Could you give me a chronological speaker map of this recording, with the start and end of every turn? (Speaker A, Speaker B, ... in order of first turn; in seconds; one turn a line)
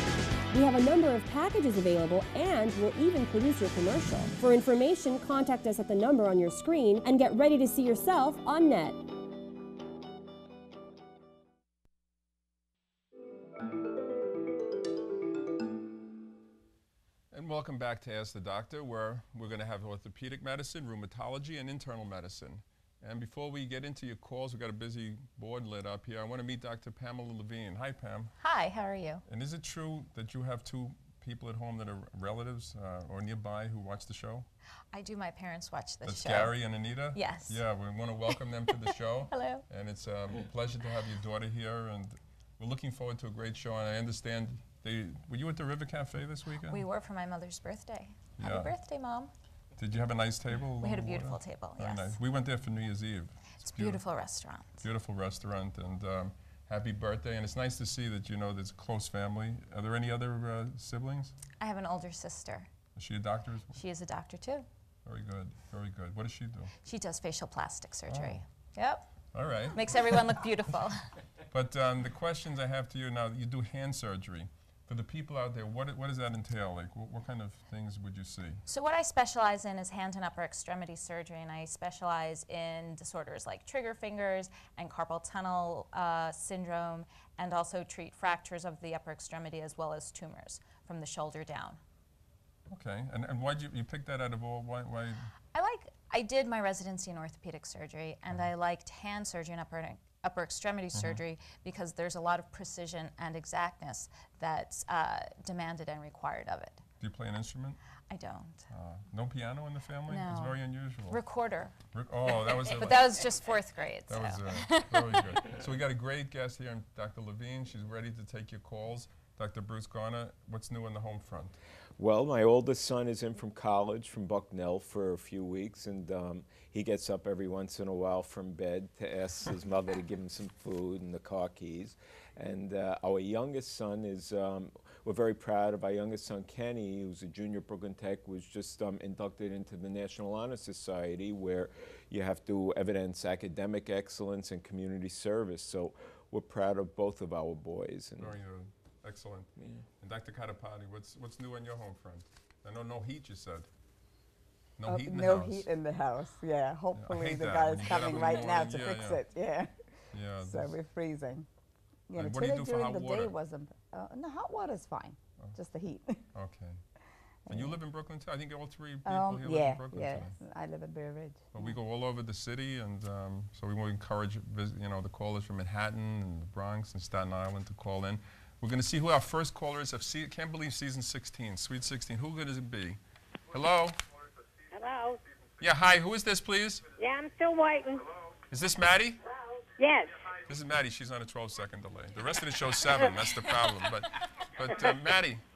Speaker A: 0.5-9.0
Speaker B: 17.3-28.3
Speaker C: 28.4-29.2
Speaker B: 29.3-34.5
Speaker C: 34.9-36.6
Speaker B: 36.0-46.9
Speaker C: 37.1-37.6
Speaker C: 39.3-39.6
Speaker C: 46.6-49.3
Speaker B: 48.4-48.7
Speaker B: 49.8-54.0
Speaker C: 50.8-52.2
Speaker C: 53.6-54.8
Speaker B: 54.8-61.4
Speaker C: 61.6-62.7
Speaker B: 63.0-63.8
Speaker C: 63.8-64.7
Speaker B: 65.1-66.7
Speaker C: 66.8-69.1
Speaker B: 68.1-68.4
Speaker B: 69.3-70.0
Speaker C: 69.7-71.1
Speaker B: 71.5-78.6
Speaker C: 78.7-91.8
Speaker B: 92.7-95.3
Speaker C: 95.5-106.8
Speaker B: 100.9-101.2
Speaker B: 107.0-107.8
Speaker C: 108.1-108.7
Speaker B: 108.7-111.2
Speaker C: 110.1-111.8
Speaker B: 111.9-113.4
Speaker C: 112.3-115.4
Speaker B: 114.1-121.6
Speaker D: 122.0-148.3
Speaker B: 148.2-153.7
Speaker D: 149.6-149.8
Speaker B: 154.8-155.7
Speaker E: 154.9-159.7
Speaker B: 156.9-159.2
Speaker B: 160.1-160.8
Speaker E: 160.4-161.5
Speaker E: 162.1-166.2
Speaker B: 162.2-163.3
Speaker B: 166.3-166.8
Speaker E: 167.5-167.8
Speaker B: 167.5-170.3
Speaker E: 169.1-171.8
Speaker B: 171.5-183.0
Speaker B: 183.5-184.0
Speaker F: 184.7-185.2
Speaker B: 185.6-186.8
Speaker F: 187.0-188.1
Speaker B: 188.5-189.2
Speaker F: 189.8-190.2
Speaker B: 190.5-195.4
Speaker F: 194.7-195.0